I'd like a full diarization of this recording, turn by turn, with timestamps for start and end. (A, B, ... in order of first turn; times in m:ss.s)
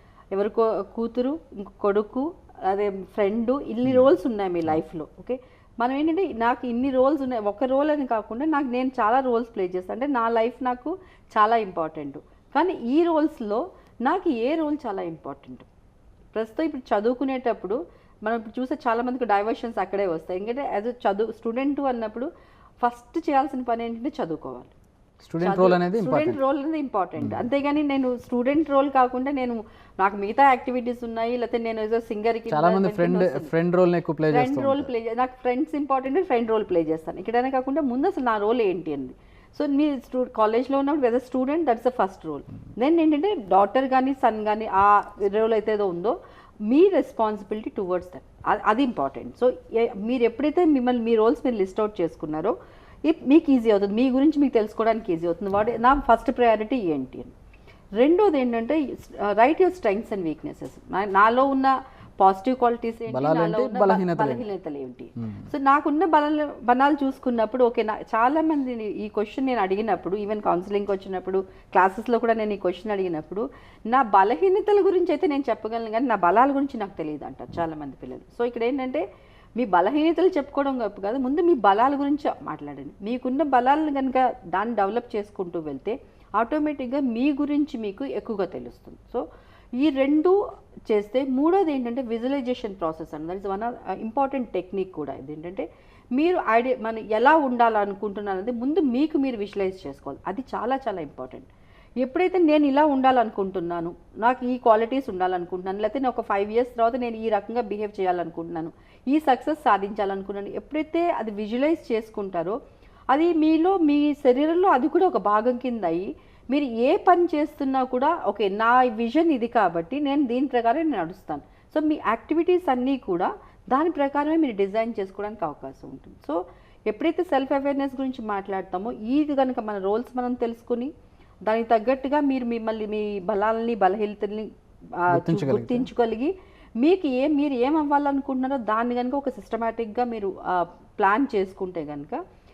0:00.3-0:15.7 A
0:03.9-0:04.1 B
0:16.3-0:22.3 A
0:22.8-0:24.7 A
0:25.2-0:26.4 B
0:25.4-0:33.5 A
0:27.2-0:27.5 B
0:32.5-0:34.9 B
0:34.3-0:46.2 A
0:46.7-0:52.5 A
0:53.1-0:57.3 A
0:58.0-1:19.0 A
1:03.1-1:04.5 B
1:19.6-1:29.2 A
1:29.8-1:30.4 A
1:30.9-1:41.5 A
1:42.0-1:52.6 A
1:53.1-2:10.9 A
2:11.5-2:14.5 A
2:15.0-2:22.2 A
2:15.1-2:15.9 B